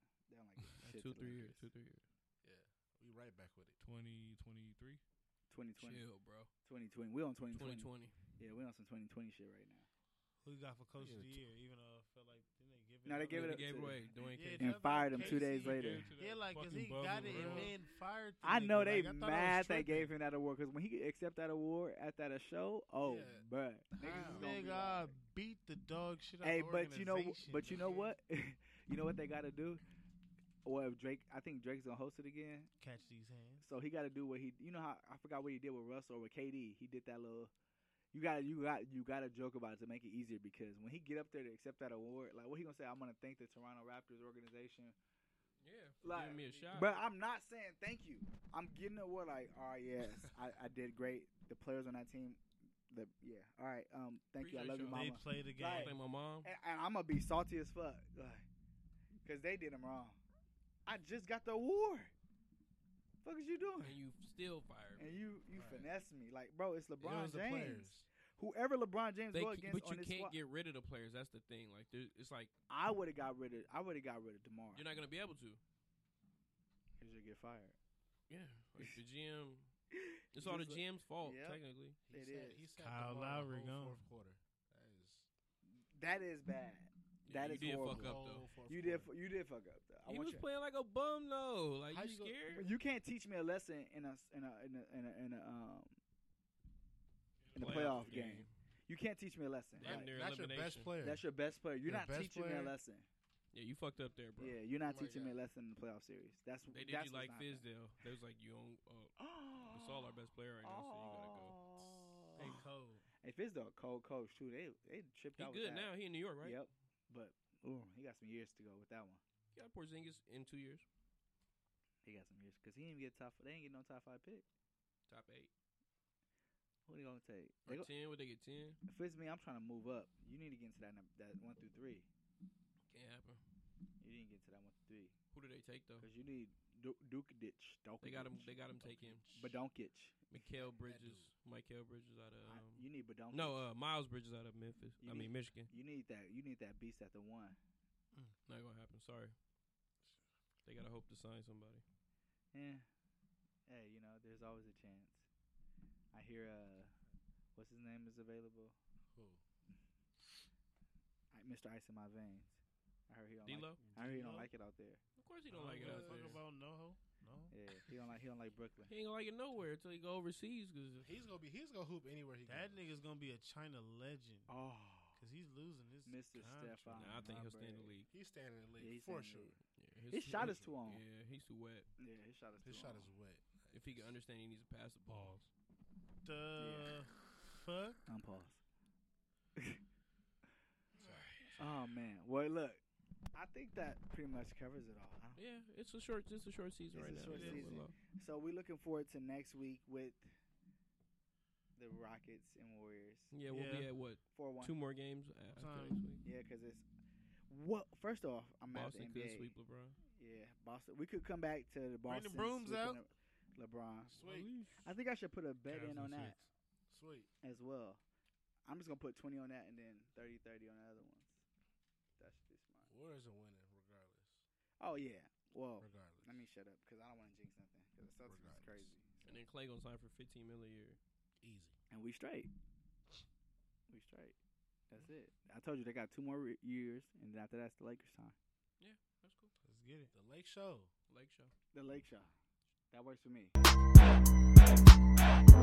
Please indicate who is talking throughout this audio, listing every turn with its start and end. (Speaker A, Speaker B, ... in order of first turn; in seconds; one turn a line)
Speaker A: 0.3-1.6
Speaker B: 0.8-2.0
Speaker C: 2.4-3.8
Speaker D: 3.8-5.0
Speaker A: 5.5-6.0
Speaker B: 5.8-6.5
Speaker A: 6.7-9.9
Speaker B: 7.5-8.2
Speaker E: 10.4-20.1
Speaker C: 11.0-11.4
Speaker A: 13.1-14.0
Speaker B: 13.3-14.9
Speaker A: 14.6-16.1
Speaker D: 15.2-17.8
Speaker C: 17.2-17.8
Speaker A: 18.4-25.1
Speaker C: 23.0-23.5
Speaker C: 24.0-25.0
Speaker E: 24.0-27.9
Speaker A: 26.4-29.8
Speaker C: 27.7-28.1
Speaker A: 30.6-32.7
Speaker E: 32.8-33.6
Speaker A: 33.6-37.5
Speaker A: 38.1-45.0
Speaker B: 45.6-47.0
Speaker A: 46.0-58.5
Speaker B: 54.4-56.5
Speaker E: 54.9-56.0
Speaker A: 59.2-60.2
Speaker A: 60.9-62.1
Speaker A: 63.2-64.0
Speaker B: 63.8-65.2
Speaker A: 65.0-70.4
Speaker C: 65.5-65.9
Speaker C: 67.0-68.1
Speaker B: 69.3-72.5
Speaker A: 72.7-74.9
Speaker B: 74.7-75.6
Speaker A: 77.0-77.8
Speaker B: 78.3-79.7
Speaker A: 79.9-82.7
Speaker B: 80.3-82.0
Speaker C: 82.1-85.3
Speaker E: 82.8-84.0
Speaker A: 85.8-90.5
Speaker B: 87.2-88.5
Speaker C: 87.7-89.1
Speaker B: 90.1-92.7
Speaker C: 91.9-92.4
Speaker A: 92.5-96.0
Speaker D: 97.4-98.4
Speaker A: 97.5-100.1
Speaker B: 97.5-98.5
Speaker B: 99.8-100.9
Speaker C: 99.8-101.3
Speaker A: 101.0-103.1
Speaker C: 101.8-102.8
Speaker B: 103.5-104.6
Speaker A: 104.4-107.7
Speaker C: 104.8-105.4
Speaker B: 106.7-109.2
Speaker A: 109.2-112.6
Speaker B: 109.7-111.6
Speaker E: 112.4-113.0
Speaker A: 113.2-119.2
Speaker B: 115.4-116.6
Speaker B: 119.5-120.8
Speaker A: 122.0-124.5
Speaker B: 125.1-125.5
Speaker A: 126.9-127.9
Speaker B: 127.7-128.8
Speaker A: 128.9-132.1
Speaker B: 132.9-133.4
Speaker A: 134.0-135.2
Speaker B: 135.3-136.1
Speaker A: 136.0-138.5
Speaker B: 138.0-139.2
Speaker C: 138.7-139.6
Speaker A: 139.3-140.2
Speaker B: 140.3-145.7
Speaker C: 140.5-141.3
Speaker A: 142.4-143.7
Speaker A: 145.0-147.6
Speaker B: 148.5-149.4
Speaker B: 150.7-151.8
Speaker A: 152.5-152.9
Speaker A: 153.7-155.2
Speaker A: 156.1-156.9
Speaker A: 157.6-158.8
Speaker C: 159.1-159.4
Speaker A: 161.3-162.6
Speaker A: 163.1-165.0
Speaker B: 163.5-163.8
Speaker E: 163.8-164.5
Speaker B: 165.2-166.4
Speaker E: 165.5-167.6
Speaker D: 165.7-166.3
Speaker A: 167.5-168.9
Speaker B: 168.9-171.1
Speaker C: 171.0-172.8
Speaker E: 172.5-174.5
Speaker A: 174.5-175.2
Speaker E: 175.2-177.2
Speaker A: 176.1-178.0
Speaker B: 176.9-178.1
Speaker C: 178.1-179.6
Speaker A: 178.8-179.6
Speaker B: 179.8-181.9
Speaker A: 180.1-181.0
Speaker C: 180.3-180.6
Speaker A: 182.0-183.1
Speaker C: 182.6-184.2
Speaker B: 183.7-185.2
Speaker D: 185.1-185.5
Speaker E: 186.2-188.1
Speaker A: 186.6-187.0
Speaker A: 188.1-188.6
Speaker A: 189.6-189.8
Speaker C: 191.0-191.6
Speaker B: 191.0-191.6
Speaker A: 191.6-192.8
Speaker A: 193.3-195.4
Speaker B: 195.3-198.0
Speaker A: 196.9-200.3
Speaker E: 197.3-197.8
Speaker A: 201.8-203.3
Speaker B: 203.3-206.2
Speaker E: 203.4-203.9
Speaker A: 204.3-204.7
Speaker E: 205.5-206.0
Speaker A: 206.2-206.9
Speaker A: 207.5-209.6
Speaker B: 208.7-210.0
Speaker A: 210.1-214.2
Speaker E: 212.1-213.0
Speaker C: 214.1-214.6
Speaker B: 214.2-214.9
Speaker A: 214.8-216.4
Speaker D: 215.7-216.4
Speaker C: 216.9-217.3
Speaker A: 217.4-218.0
Speaker A: 218.7-221.4
Speaker A: 222.2-222.9
Speaker C: 222.9-224.4
Speaker A: 224.8-229.4
Speaker C: 225.8-226.4
Speaker C: 228.2-228.9
Speaker B: 229.2-231.0
Speaker C: 231.4-231.8
Speaker A: 231.9-232.5
Speaker A: 233.9-234.4
Speaker A: 234.9-238.3
Speaker B: 238.8-239.5
Speaker E: 239.6-240.1
Speaker C: 240.1-240.9
Speaker B: 241.1-241.5
Speaker A: 241.7-242.3
Speaker A: 242.9-243.5